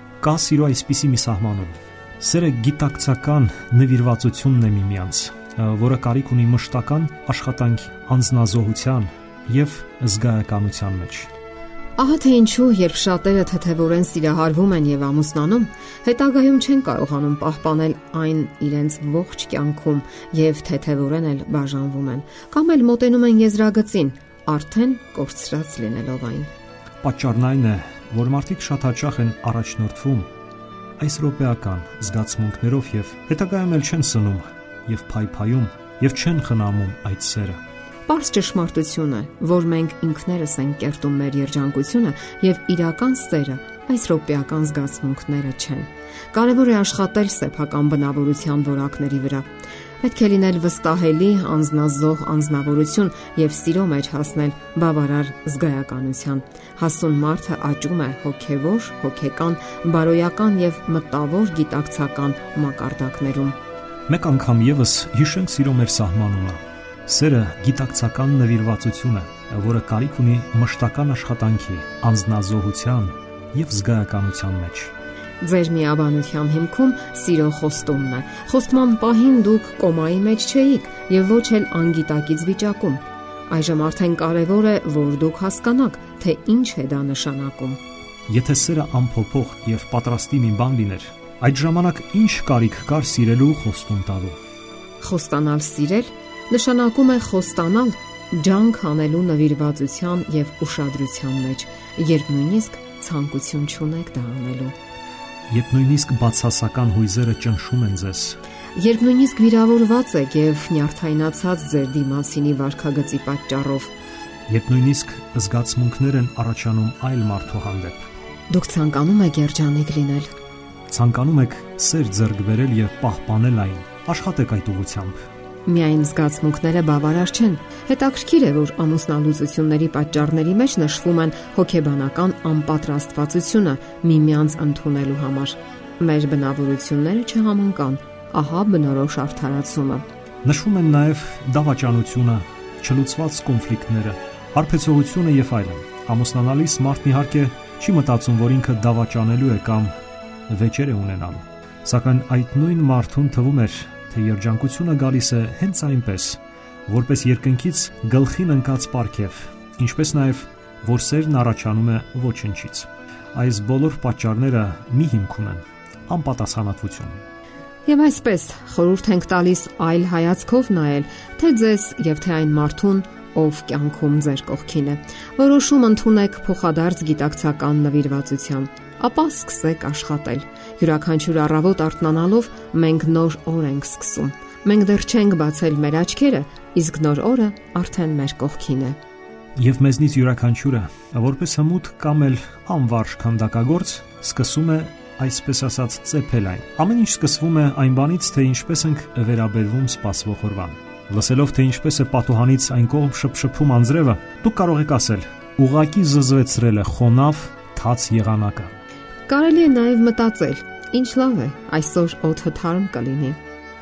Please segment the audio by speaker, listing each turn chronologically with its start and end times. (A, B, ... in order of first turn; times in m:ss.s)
0:00.2-0:11.3 A
0:12.0-0:26.5 B
0:27.0-0:30.3 A
0:31.0-0:37.6 A
0:38.1-0:49.5 B
0:50.0-1:03.6 B
1:04.1-1:14.9 A
1:15.4-1:27.8 B
1:28.3-1:34.4 A
1:35.0-1:44.7 B
1:45.5-1:48.4 A
1:48.7-1:53.9 B
1:54.5-1:58.0 A
1:58.5-2:00.3 B
2:00.9-2:05.2 A
2:05.6-2:20.0 B
2:20.4-2:29.9 A
2:30.5-2:47.2 A
2:47.8-3:09.0 B
3:09.6-3:28.7 A
3:29.3-3:33.4 B